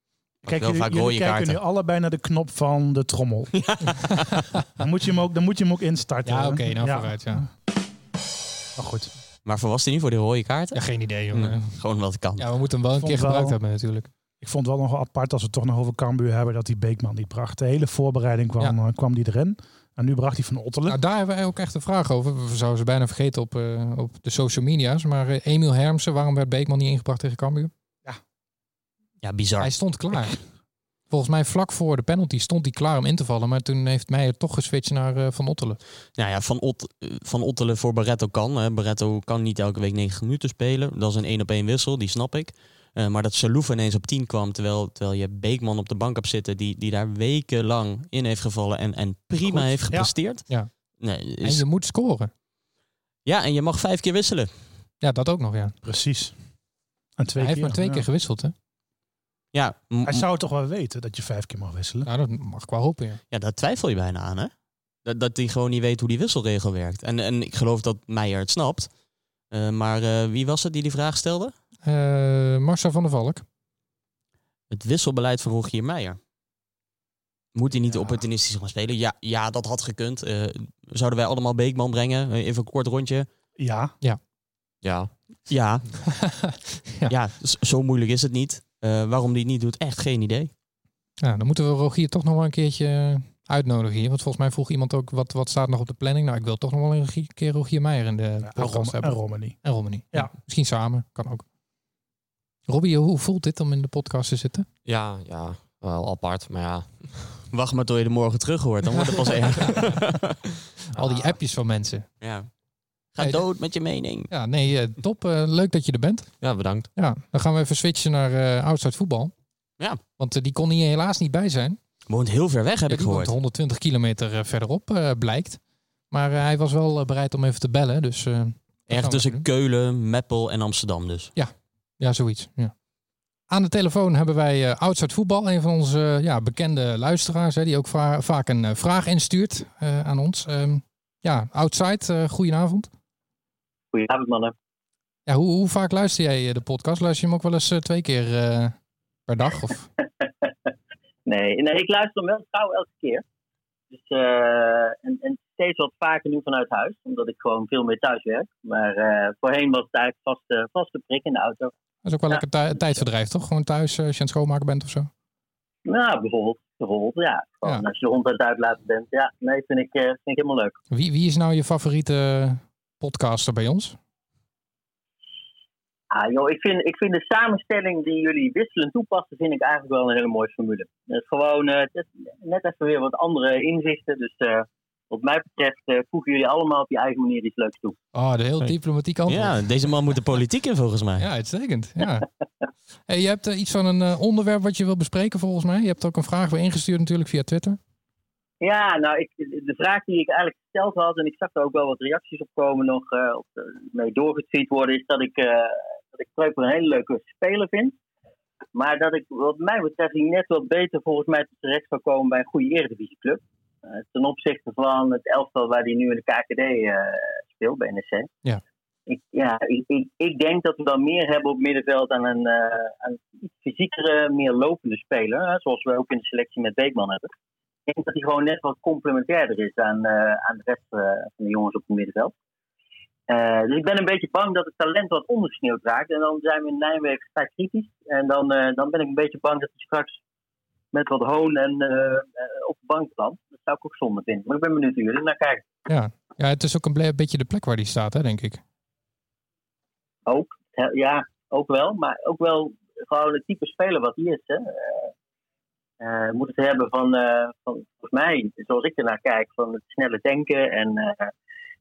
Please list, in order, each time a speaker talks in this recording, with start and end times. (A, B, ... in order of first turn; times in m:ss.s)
0:00.4-0:03.5 A
0:00.4-0:01.6 B
0:03.5-0:04.4 B
0:04.8-0:07.5 A
0:06.2-0:07.4 C
0:08.8-0:09.1 A
0:09.4-0:12.5 B
0:10.7-0:11.8 C
0:12.4-0:14.1 C
0:13.0-0:13.6 A
0:14.4-0:21.0 A
0:20.9-0:27.7 C
0:29.2-0:29.7 B
0:29.6-0:30.4 C
0:31.1-0:35.8 C
0:36.2-0:50.5 B
0:51.0-0:51.6 B
0:51.4-0:52.3 C
0:53.2-0:54.5 B
0:55.0-0:55.8 C
0:55.8-0:56.3 A
0:57.2-0:58.0 A
0:57.4-0:58.5 C
0:59.5-1:00.2 B
1:00.0-1:02.1 A
1:02.0-1:03.2 C
1:03.3-1:04.5 B
1:05.0-1:08.9 B
1:09.5-1:11.5 B
1:11.8-1:13.4 C
1:14.7-1:16.2 B
1:17.5-1:23.3 B
1:23.6-1:23.9 A
1:24.8-1:25.1 D
1:25.5-1:25.9 B
1:26.2-1:27.1 C
1:27.1-1:30.5 B
1:31.2-1:41.4 C
1:38.4-1:39.6 A
1:42.7-1:44.7 C
1:44.8-1:47.3 D
1:47.5-1:50.4 B
1:49.0-1:49.9 C
1:50.9-1:52.1 C
1:52.2-1:52.5 B
1:53.1-1:54.3 B
1:54.3-1:56.3 C
1:56.4-1:56.9 D
1:56.9-1:59.3 C
2:00.2-2:01.8 C
2:02.1-2:03.3 B
2:02.9-2:09.4 C
2:08.9-2:11.3 B
2:11.4-2:12.7 C
2:13.5-2:22.9 C
2:23.9-2:24.5 E
2:25.3-2:28.7 C
2:29.3-2:29.9 C
2:31.2-2:33.2 E
2:33.9-2:41.7 E
2:42.0-2:45.1 C
2:45.8-2:50.8 E
2:50.9-2:54.0 C
2:56.1-3:07.9 E
3:08.1-3:09.6 C
3:09.2-3:11.3 B
3:11.2-3:12.2 C
3:13.1-3:17.8 C
3:18.6-3:28.0 E
3:28.7-3:38.3 E
3:39.1-3:47.3 E
3:47.9-3:52.3 E
3:53.3-4:00.2 E
4:00.9-4:05.6 E
4:05.9-4:08.6 C
4:10.2-4:15.1 E
4:16.0-4:21.3 E